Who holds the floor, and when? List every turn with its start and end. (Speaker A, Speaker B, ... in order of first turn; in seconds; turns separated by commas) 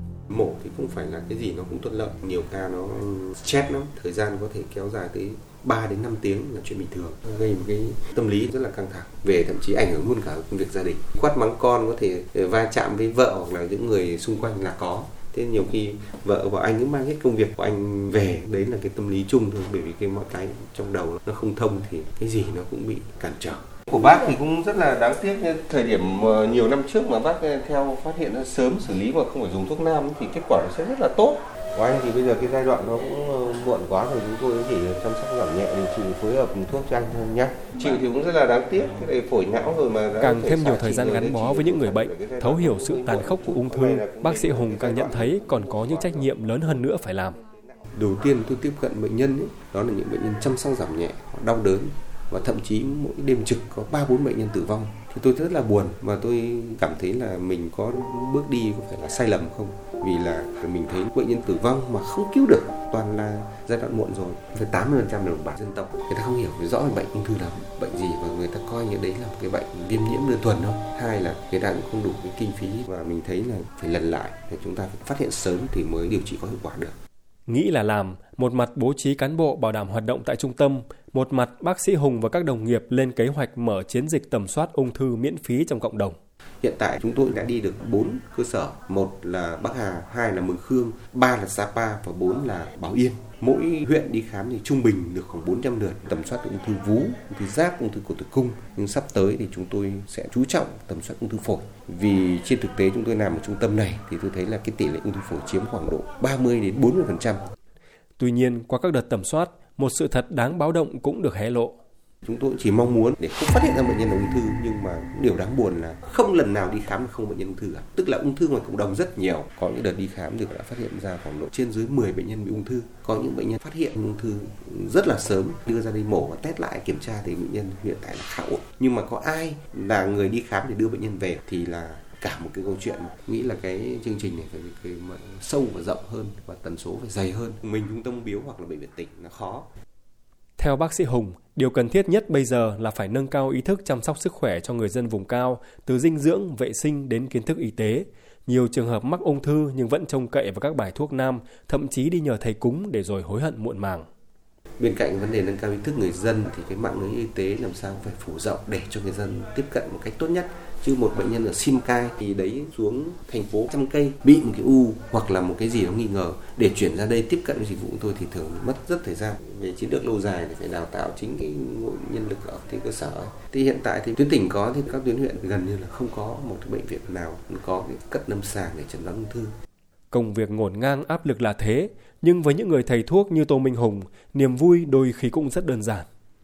Speaker A: 0.3-46.9, Speaker B: 40.2-47.4, Speaker A: 47.5-76.9, Speaker B: 77.5-86.2, Speaker A: 86.6-107.4, Speaker B: 108.2-111.7, Speaker A: 112.2-139.7, Speaker B: 140.6-154.1, Speaker A: 154.8-179.5, Speaker B: 180.1-186.1